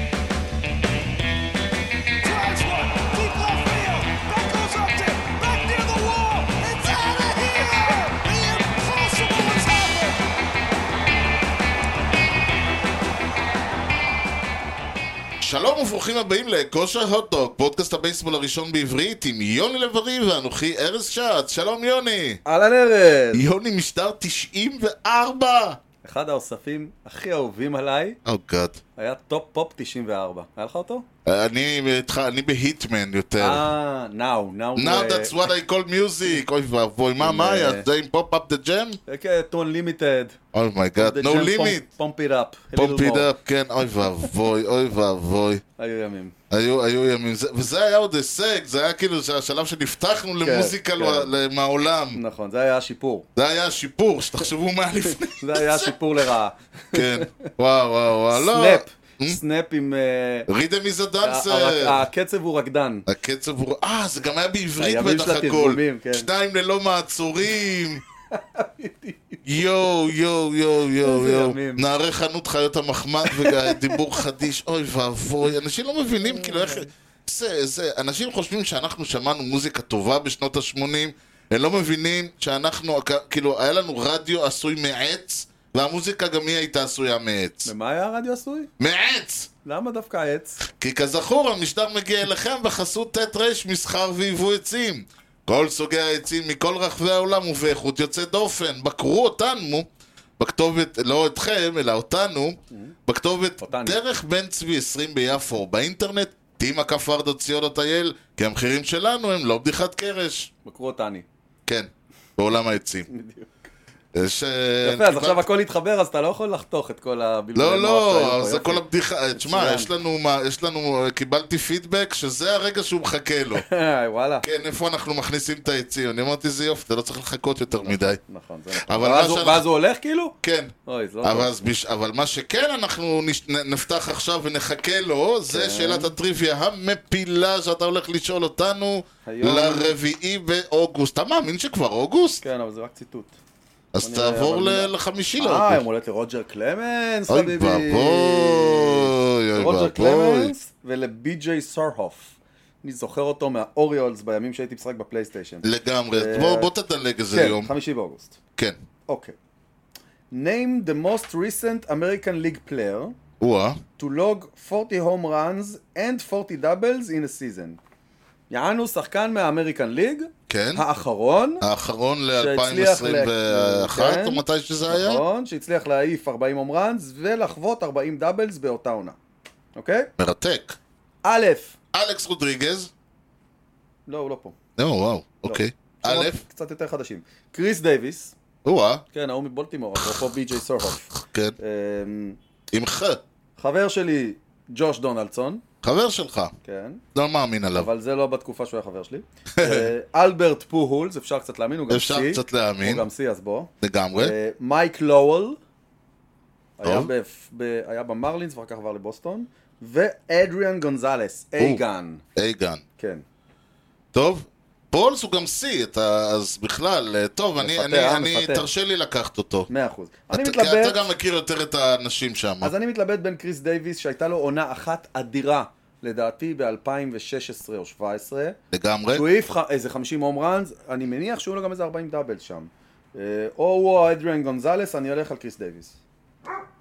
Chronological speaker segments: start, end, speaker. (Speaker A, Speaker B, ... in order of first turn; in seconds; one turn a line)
Speaker A: 2.2-10.1
Speaker B: 2.9-9.8
Speaker C: 15.4-22.4
Speaker B: 22.4-23.4
Speaker C: 23.3-25.8
Speaker B: 26.0-28.2
Speaker C: 28.2-28.8
Speaker B: 29.0-31.1
Speaker C: 31.2-33.7
Speaker B: 33.4-35.5
Speaker C: 34.8-39.0
Speaker B: 37.2-37.9
Speaker B: 39.1-40.4
Speaker C: 40.5-41.9
Speaker B: 41.0-43.3
Speaker C: 42.8-45.6
Speaker B: 45.8-46.4
Speaker C: 46.5-52.2
Speaker B: 50.4-51.3
Speaker B: 52.1-53.3
Speaker C: 53.4-55.9
Speaker B: 55.0-57.5
Speaker C: 56.9-59.4
Speaker B: 58.3-60.5
Speaker C: 60.5-62.0
Speaker B: 61.2-63.1
Speaker C: 63.1-68.0
Speaker B: 64.8-66.3
Speaker B: 68.3-69.4
Speaker C: 69.5-87.7
Speaker B: 71.0-71.8
Speaker B: 73.2-74.0
Speaker B: 76.2-76.9
Speaker B: 87.7-88.7
Speaker C: 88.8-89.5
Speaker B: 89.7-90.6
Speaker C: 90.7-99.9
Speaker C: 100.4-110.5
Speaker B: 103.6-104.0
Speaker B: 110.7-111.3
Speaker C: 111.7-113.1
Speaker B: 113.1-113.5
Speaker C: 114.2-115.5
Speaker B: 114.8-118.8
Speaker C: 117.5-123.7
Speaker B: 119.3-119.9
Speaker B: 123.5-124.5
Speaker C: 124.4-128.2
Speaker B: 127.7-131.5
Speaker C: 128.8-129.6
Speaker C: 130.4-142.4
Speaker B: 135.5-136.1
Speaker B: 139.2-139.9
Speaker B: 142.4-143.4
Speaker C: 143.9-145.8
Speaker B: 144.0-156.7
Speaker C: 147.3-150.5
Speaker C: 155.6-157.7
Speaker B: 157.3-158.4
Speaker B: 159.1-159.3
Speaker B: 160.3-163.2
Speaker C: 163.4-163.8
Speaker B: 164.0-167.8
Speaker B: 168.5-171.6
Speaker C: 170.5-170.8
Speaker C: 171.6-175.2
Speaker B: 172.3-179.2
Speaker B: 179.7-180.1
Speaker C: 180.2-180.8
Speaker B: 181.2-181.8
Speaker C: 181.9-182.9
Speaker B: 184.1-184.6
Speaker C: 184.8-186.4
Speaker B: 185.4-188.3
Speaker C: 188.7-189.0
Speaker B: 189.1-192.4
Speaker C: 191.1-191.6
Speaker C: 192.7-193.2
Speaker B: 193.6-195.6
Speaker C: 195.8-196.5
Speaker B: 196.6-197.0
Speaker C: 197.1-197.9
Speaker B: 197.8-205.6
Speaker C: 199.6-199.9
Speaker C: 201.9-203.1
Speaker C: 203.8-204.3
Speaker B: 206.8-212.2
Speaker C: 206.8-207.1
Speaker C: 212.3-212.8
Speaker B: 213.0-213.2
Speaker C: 214.1-219.7
Speaker B: 217.6-218.7
Speaker B: 219.7-221.1
Speaker C: 220.3-222.7
Speaker B: 222.6-228.6
Speaker C: 228.7-229.3
Speaker B: 229.1-236.0